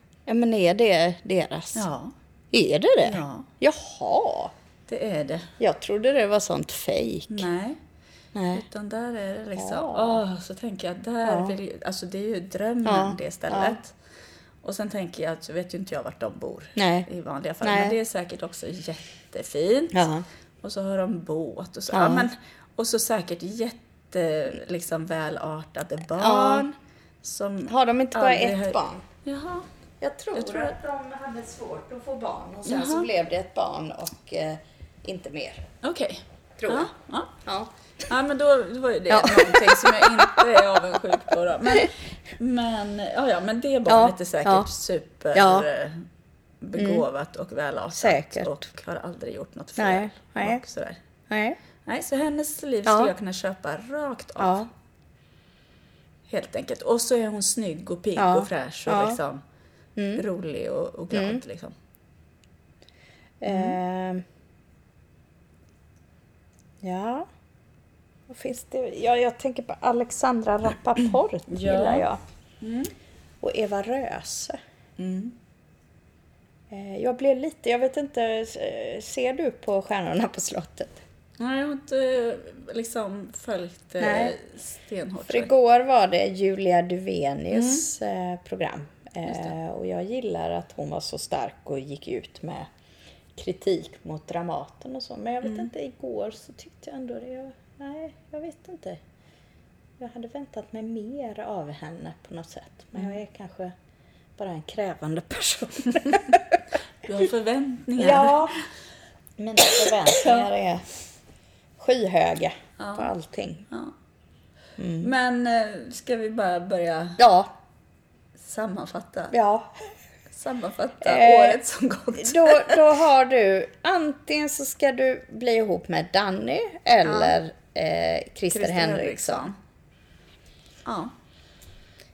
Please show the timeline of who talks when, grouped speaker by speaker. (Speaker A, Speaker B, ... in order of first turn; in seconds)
Speaker A: 0.3-1.8, 2.5-4.5, 5.6-7.5, 8.3-8.6, 9.6-10.2, 11.2-11.5, 12.8-13.8, 16.8-17.1, 17.6-17.9, 19.9-20.2, 21.9-22.2, 26.2-26.7, 27.7-29.0, 30.0-35.6, 36.6-37.7, 39.1-40.4, 43.9-44.7, 45.3-45.7, 46.8-47.0, 47.9-48.5, 49.8-50.6, 51.3-51.6, 52.9-53.1, 54.4-54.7, 58.1-59.2, 60.0-60.2, 61.1-61.4, 63.4-64.2, 66.8-67.3, 68.3-72.2, 73.4-74.6, 76.7-81.0, 84.0-84.3, 85.2-92.7, 93.3-99.0, 100.0-103.7, 104.4-106.5, 108.0-108.5, 109.4-110.8, 111.8-113.7, 114.8-115.1, 117.2-117.5, 119.3-119.8, 121.0-121.6, 122.2-129.4
Speaker B: 1.7-2.1, 3.0-3.5, 4.9-5.5, 7.3-7.8, 8.5-13.9, 14.6-20.1, 20.6-29.6, 30.3-30.8, 32.6-33.1, 35.8-37.3, 38.1-46.0, 46.6-51.0, 51.8-54.7, 56.3-59.4, 60.1-61.7, 63.5-63.8, 71.5-72.1, 72.6-72.9, 75.0-75.3, 81.4-85.5, 87.5-87.9, 89.2-89.5, 95.4-95.7, 106.0-106.4, 107.0-108.6, 110.1-110.5, 112.8-113.1, 113.7-113.9, 115.0-117.2, 118.4-119.3, 120.3-122.8, 127.0-127.4, 128.5-129.6, 130.8-131.1